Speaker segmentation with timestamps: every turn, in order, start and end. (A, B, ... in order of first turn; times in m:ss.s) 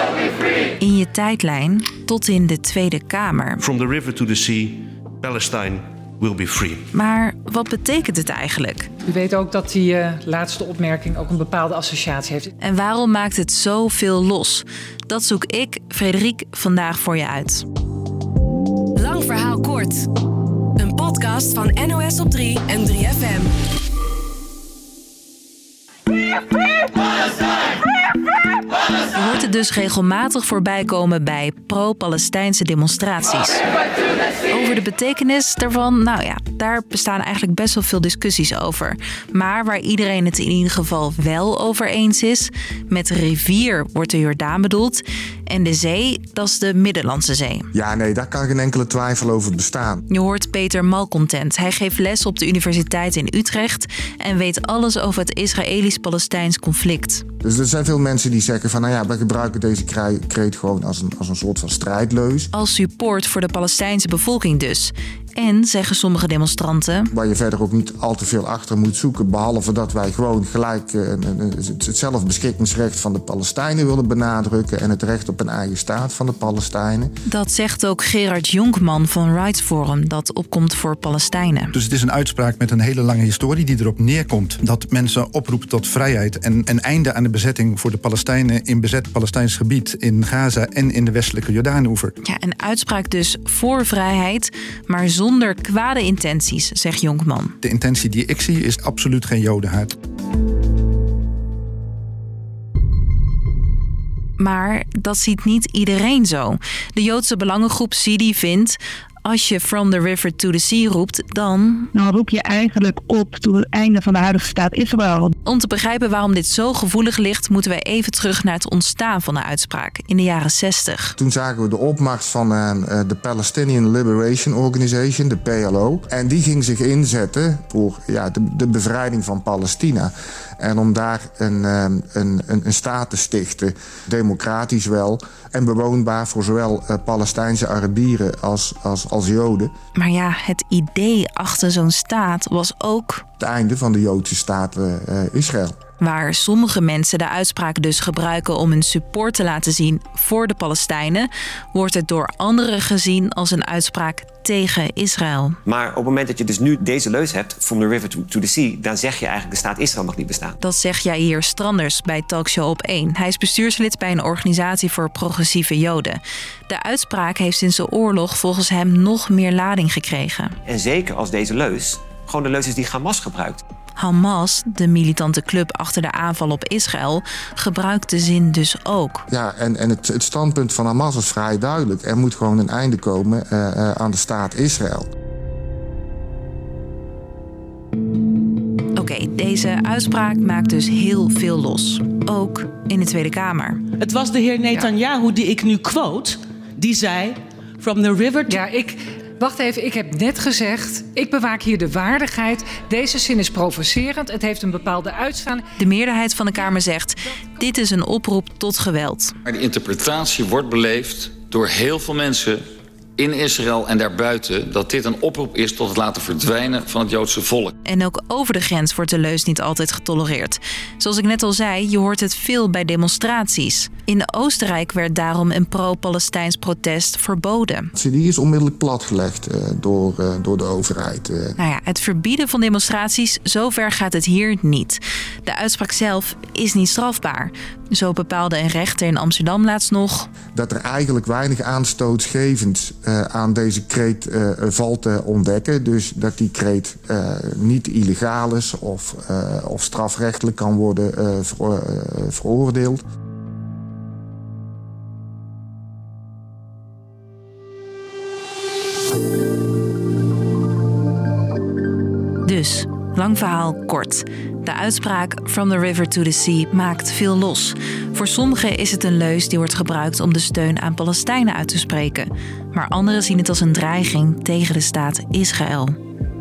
0:00.8-0:03.6 A
0:03.6-0:06.9 B
0:06.9-0:08.9 A
0:09.1-0:12.5 C
0:12.6-0:17.6 A
0:19.0-0:20.1 D
0:20.8-0:23.5 D
0:29.2-0:33.6 A
0:34.5-0:47.7 A
0:47.7-0:50.0 E
0:50.1-0:57.2 A
0:57.4-1:02.5 E
1:02.5-1:07.1 A
1:07.1-1:17.1 E
1:17.3-1:21.7 A
1:21.8-1:32.1 F
1:32.2-1:37.6 A
1:37.6-1:39.9 F
1:44.4-1:51.9 A
1:51.9-1:55.4 G
1:55.4-2:01.2 A
2:01.2-2:19.7 E
2:20.0-2:23.2 A
2:23.4-2:25.8 E
2:26.0-2:35.6 A
2:35.7-2:40.6 H
2:40.6-2:50.6 A
2:50.7-2:53.6 H
2:54.0-2:59.2 A
2:59.3-3:05.1 E
3:09.0-3:13.8 A
3:14.1-3:16.2 I
3:18.5-3:25.6 C
3:25.8-3:29.4 A
3:29.5-3:32.6 J
3:33.2-3:37.7 J
3:37.8-3:47.9 A
3:48.0-3:51.6 E
3:51.6-4:00.3 A
4:00.5-4:13.0 E
4:22.4-4:36.0 A